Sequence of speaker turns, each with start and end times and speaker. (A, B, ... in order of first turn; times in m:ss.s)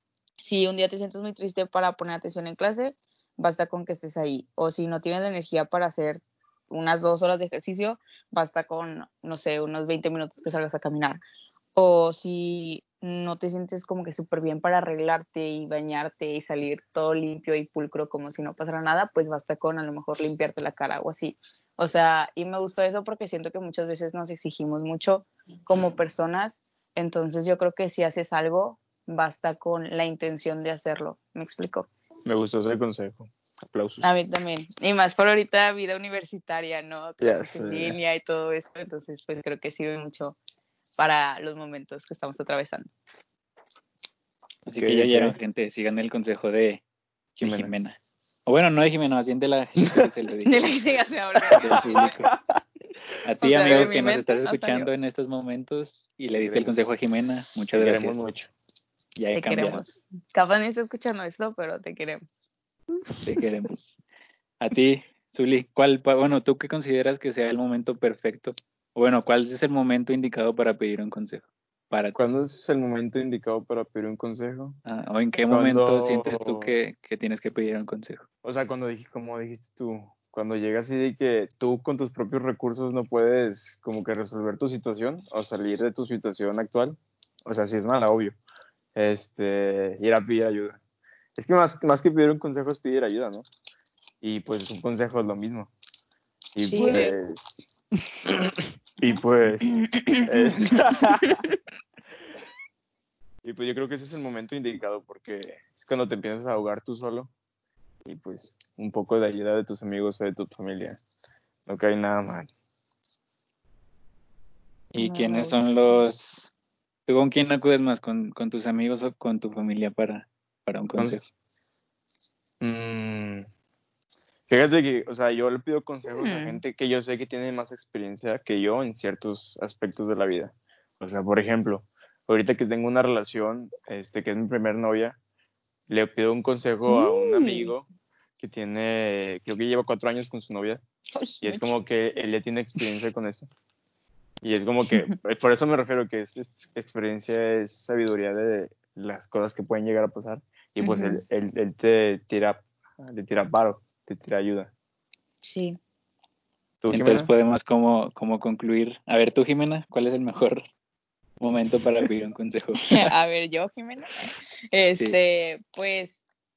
0:00.4-0:11.2 A
0:11.8-0:31.9 A
0:32.3-0:34.1 B
0:34.0-0:40.4 A
0:37.2-0:38.0 B
0:41.0-0:42.9 A
0:44.7-0:46.8 C
0:44.8-0:45.4 B
0:47.4-0:50.8 C
0:47.4-0:47.7 B
0:50.4-0:52.1 A
0:51.5-0:52.6 B
0:51.6-0:52.3 C
0:53.2-0:58.2 C
0:53.4-0:54.9 A
0:56.4-0:56.7 B
0:57.7-0:58.5 B
0:59.2-0:59.9 C
0:59.4-1:02.2 A
1:03.2-1:04.0 C
1:04.6-1:12.2 C
1:12.2-1:14.8 B
1:14.8-1:18.2 C
1:15.5-1:16.7 B
1:18.4-1:28.4 B
1:29.0-1:30.8 B
1:31.4-1:33.5 B
1:34.2-1:35.7 B
1:36.6-1:37.4 B
1:36.7-1:37.2 A
1:38.2-1:41.4 B
1:39.7-1:41.4 A
1:43.4-1:47.3 B
1:48.0-1:51.0 B
1:51.7-1:52.5 B
1:54.9-1:56.5 C
1:55.0-1:56.0 A
1:57.1-2:01.3 C
2:01.0-2:01.2 B
2:02.6-2:03.5 B
2:04.5-2:15.2 B
2:06.2-2:06.6 A
2:15.9-2:17.9 B
2:16.9-2:17.7 A
2:18.4-2:20.8 B
2:21.2-2:21.7 A
2:21.4-2:23.5 B
2:24.4-2:34.7 B
2:30.8-2:31.2 A
2:35.4-2:35.8 A
2:36.8-2:37.3 B
2:36.9-2:40.6 C
2:41.4-2:43.1 C
2:42.9-2:46.2 A